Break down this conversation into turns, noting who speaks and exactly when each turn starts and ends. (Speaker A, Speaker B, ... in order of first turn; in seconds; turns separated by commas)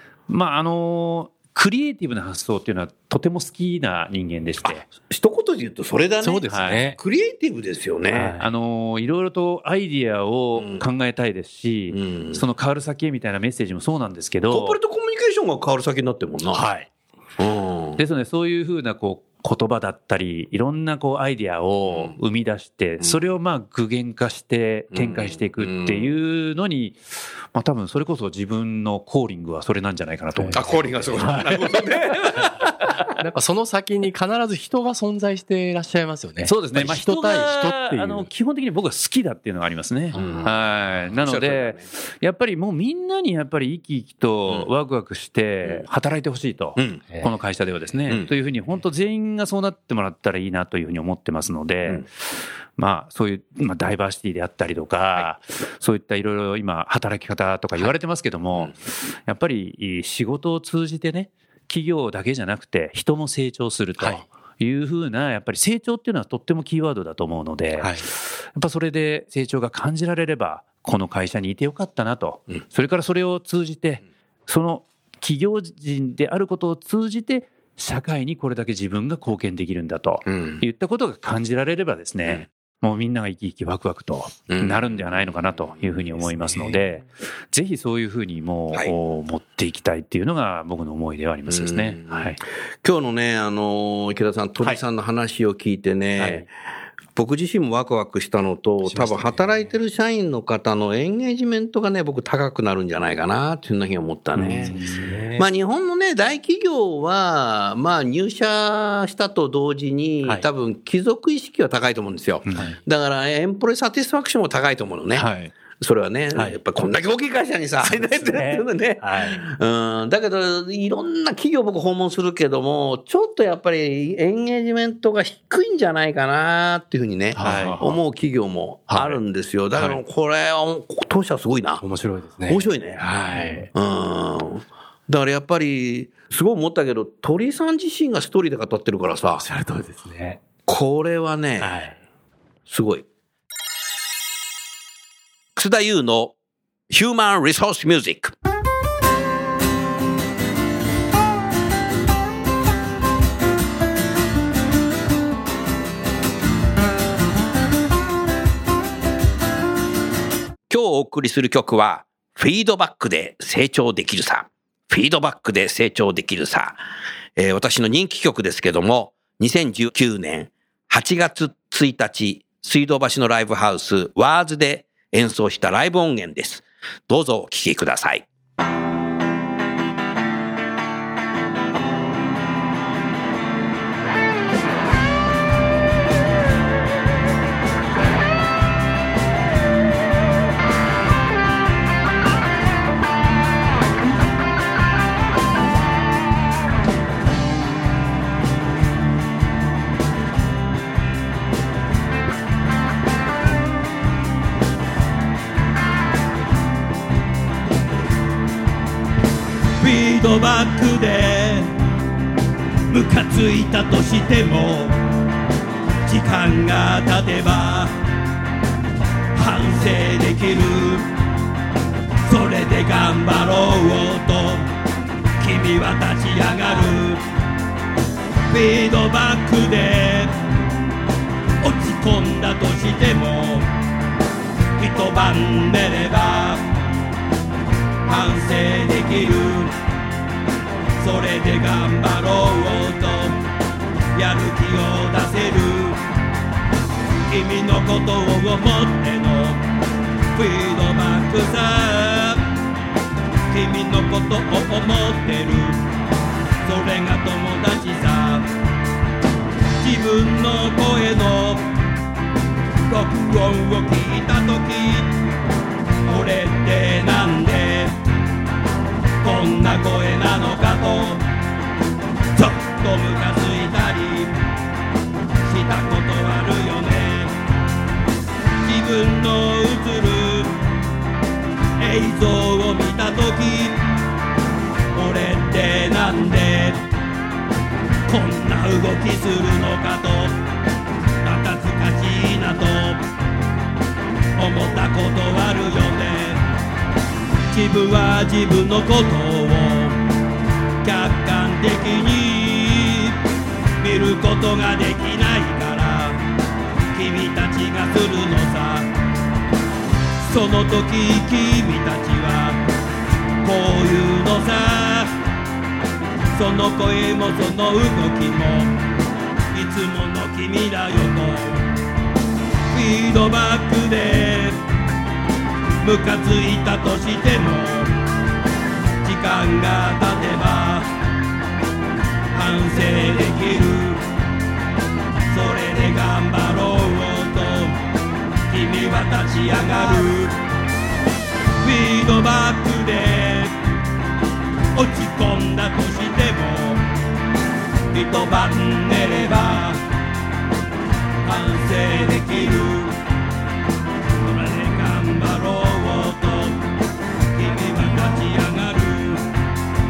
Speaker A: 0.3-4.8, Speaker B: 4.6-8.4, Speaker C: 6.2-7.0, Speaker A: 6.5-6.9, Speaker C: 8.1-8.4, Speaker A: 8.4-14.8, Speaker B: 10.6-10.8, Speaker B: 11.9-12.4, Speaker B: 14.5-16.6, Speaker C: 16.5-16.9, Speaker B: 17.4-18.0, Speaker A: 18.0-27.0, Speaker B: 21.9-22.1, Speaker B: 24.9-26.1, Speaker A: 27.5-33.1, Speaker C: 30.4-31.3, Speaker B: 30.5-32.6, Speaker C: 33.2-38.3, Speaker A: 36.4-52.1, Speaker C: 40.1-40.4, Speaker B: 40.1-40.5, Speaker B: 41.2-41.9, Speaker B: 46.8-47.0, Speaker A: 52.8-92.4, Speaker C: 64.0-64.2, Speaker C: 67.8-68.1, Speaker B: 80.2-80.6, Speaker B: 84.5-85.9, Speaker B: 91.5-96.5, Speaker C: 96.2-96.5, Speaker B: 97.1-104.8, Speaker C: 98.8-99.7, Speaker C: 104.3-105.5, Speaker B: 105.3-131.8, Speaker A: 112.5-112.7, Speaker C: 112.5-112.8, Speaker A: 115.1-115.5, Speaker C: 118.3-119.4, Speaker C: 127.3-127.8, Speaker A: 127.4-128.0, Speaker C: 128.9-129.2, Speaker C: 131.8-133.7, Speaker B: 132.5-133.0, Speaker B: 133.7-139.4, Speaker C: 139.4-140.4, Speaker B: 140.6-141.8, Speaker C: 141.6-142.0, Speaker B: 142.7-143.0, Speaker B: 145.6-146.3, Speaker B: 146.9-148.3, Speaker B: 160.7-166.8, Speaker B: 167.3-178.2, Speaker D: 209.8-211.7, Speaker D: 212.9-214.9, Speaker D: 216.1-217.9, Speaker D: 219.3-221.1, Speaker D: 222.3-224.7, Speaker D: 225.4-227.2, Speaker D: 228.5-230.3, Speaker D: 231.6-233.7, Speaker D: 234.8-236.6, Speaker D: 238.1-239.7, Speaker D: 241.0-243.4, Speaker D: 244.1-246.0, Speaker D: 247.3-249.6, Speaker D: 250.3-252.4, Speaker D: 253.5-255.8, Speaker D: 256.6-258.5, Speaker D: 259.8-261.6, Speaker D: 262.9-265.1, Speaker D: 266.1-267.9, Speaker D: 269.2-271.2, Speaker D: 272.3-274.3, Speaker D: 275.4-277.3, Speaker D: 278.6-280.5, Speaker D: 281.8-283.8, Speaker D: 284.9-286.8, Speaker D: 288.1-290.4, Speaker D: 291.2-293.0, Speaker D: 294.4-296.4, Speaker D: 297.5-300.0, Speaker D: 300.8-303.1, Speaker D: 303.8-306.2, Speaker D: 306.9-308.9, Speaker D: 310.2-312.6, Speaker D: 313.4-315.1, Speaker D: 316.3-318.7, Speaker D: 319.5-321.7, Speaker D: 322.7-324.6, Speaker D: 325.8-327.9, Speaker D: 329.0-330.9, Speaker D: 332.3-334.0, Speaker D: 335.3-337.8, Speaker D: 338.5-340.3, Speaker D: 341.6-343.5, Speaker D: 344.7-346.8, Speaker D: 347.9-349.8, Speaker D: 351.2-352.9, Speaker D: 354.2-356.6, Speaker D: 357.3-359.2